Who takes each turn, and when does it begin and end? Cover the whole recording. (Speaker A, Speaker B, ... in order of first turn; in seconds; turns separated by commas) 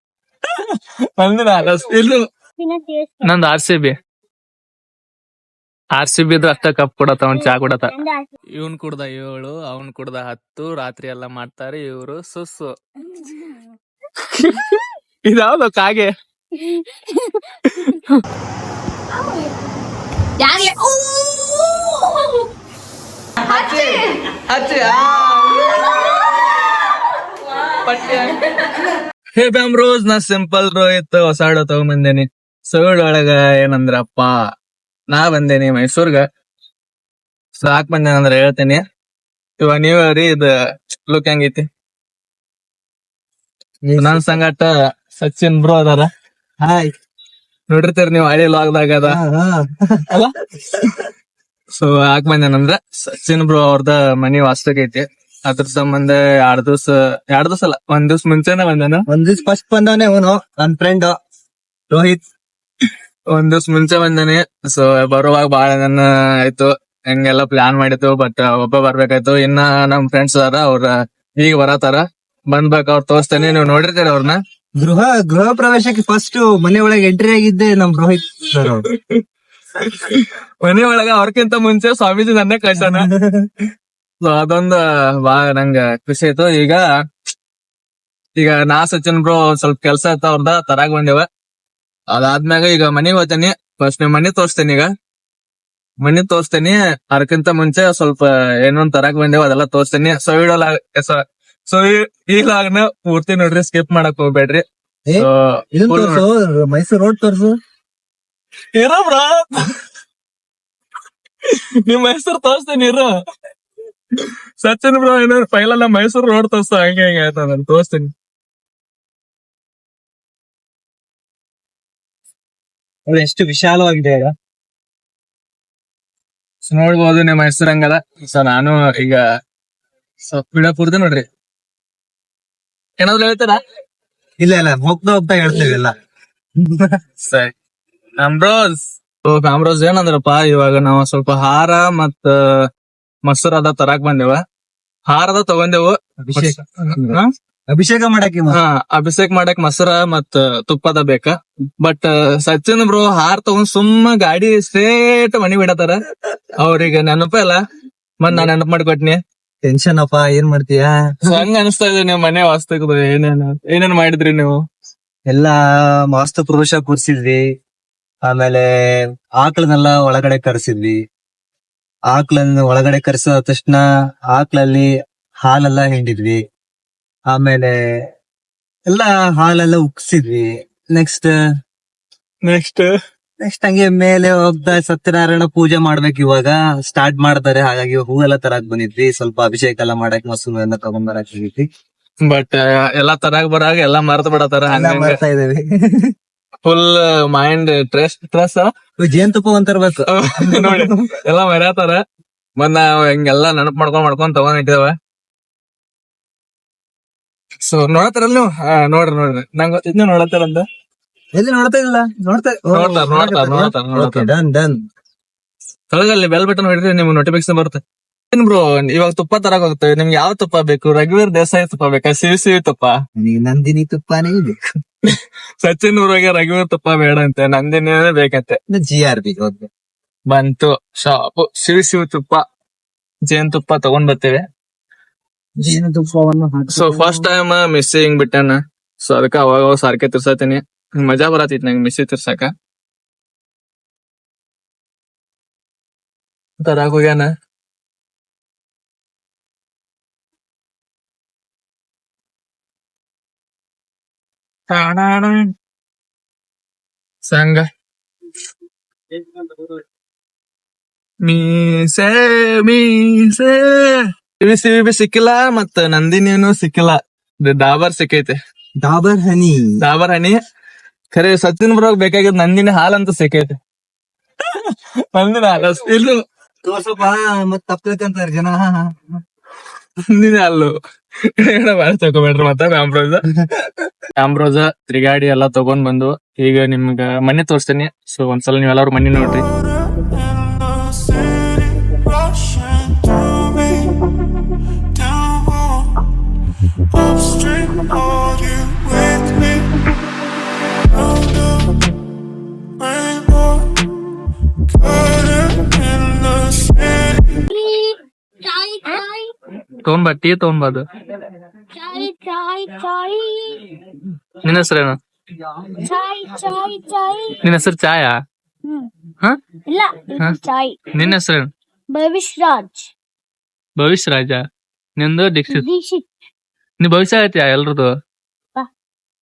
Speaker A: 0.6-2.2, Speaker B: 2.6-3.3, Speaker A: 3.2-4.0, Speaker A: 6.0-7.9, Speaker B: 7.4-8.3, Speaker A: 8.6-12.7, Speaker A: 14.2-16.1, Speaker B: 16.6-17.4, Speaker A: 17.7-18.2, Speaker B: 20.7-21.8, Speaker A: 23.6-26.1, Speaker A: 27.8-28.4, Speaker A: 29.4-34.3, Speaker A: 35.1-36.2, Speaker A: 37.6-38.8, Speaker A: 39.6-40.5, Speaker A: 41.1-41.7, Speaker C: 43.9-44.3, Speaker A: 44.0-46.1, Speaker C: 46.6-46.9, Speaker A: 47.7-49.2, Speaker C: 49.0-50.9, Speaker A: 51.8-59.0, Speaker C: 59.1-61.2, Speaker C: 61.9-62.2, Speaker A: 63.3-74.4, Speaker C: 74.8-78.8, Speaker A: 78.6-79.2, Speaker A: 79.8-83.1, Speaker C: 82.7-83.7, Speaker A: 84.2-86.8, Speaker A: 88.4-91.3, Speaker A: 92.1-94.9, Speaker A: 96.0-104.6, Speaker C: 105.1-107.5, Speaker A: 105.2-106.2, Speaker A: 108.8-109.7, Speaker A: 111.5-113.1, Speaker A: 114.2-118.1, Speaker C: 123.1-124.3, Speaker A: 126.7-129.2, Speaker A: 130.3-131.2, Speaker A: 133.0-133.6, Speaker C: 134.4-135.9, Speaker C: 136.6-137.0, Speaker A: 137.2-137.5, Speaker A: 138.2-142.4, Speaker A: 143.2-144.4, Speaker A: 145.1-147.3, Speaker C: 146.2-148.6, Speaker A: 148.5-156.0, Speaker A: 156.6-157.6, Speaker A: 158.2-159.2, Speaker C: 159.6-161.4, Speaker A: 161.3-164.6, Speaker C: 165.3-165.6, Speaker C: 166.1-167.4, Speaker C: 168.2-168.7, Speaker C: 169.4-171.0, Speaker C: 172.1-173.8, Speaker C: 174.3-174.9, Speaker C: 175.4-176.4, Speaker C: 177.3-177.8, Speaker C: 178.9-181.3, Speaker A: 182.4-182.9, Speaker C: 183.4-191.7, Speaker A: 192.2-195.2, Speaker C: 194.7-196.1, Speaker A: 196.7-198.7, Speaker C: 199.0-201.1, Speaker A: 200.1-202.0, Speaker A: 202.6-204.9, Speaker A: 207.7-210.7, Speaker C: 211.4-214.8, Speaker A: 212.7-214.3, Speaker A: 215.9-217.8, Speaker A: 218.3-223.0, Speaker C: 223.2-224.6, Speaker A: 225.1-228.6, Speaker C: 228.7-229.7, Speaker A: 230.3-232.4, Speaker A: 233.3-234.4, Speaker C: 235.6-237.3, Speaker A: 236.7-242.5, Speaker A: 246.6-247.3, Speaker A: 254.7-255.5, Speaker A: 257.3-257.6, Speaker A: 261.2-268.4, Speaker C: 268.8-269.7, Speaker A: 269.8-270.4, Speaker A: 271.1-273.6, Speaker A: 274.4-276.2, Speaker C: 276.6-279.2, Speaker A: 280.1-283.2, Speaker C: 283.4-283.7, Speaker A: 284.2-289.4, Speaker B: 307.5-309.3, Speaker A: 309.8-310.9, Speaker B: 311.7-313.6, Speaker A: 314.4-315.0, Speaker B: 315.8-317.4, Speaker A: 317.4-318.1, Speaker B: 318.6-318.9, Speaker B: 319.7-321.2, Speaker A: 320.9-321.5, Speaker B: 321.9-322.9, Speaker A: 323.8-324.4, Speaker A: 325.0-325.6, Speaker B: 325.5-326.1, Speaker A: 326.8-327.9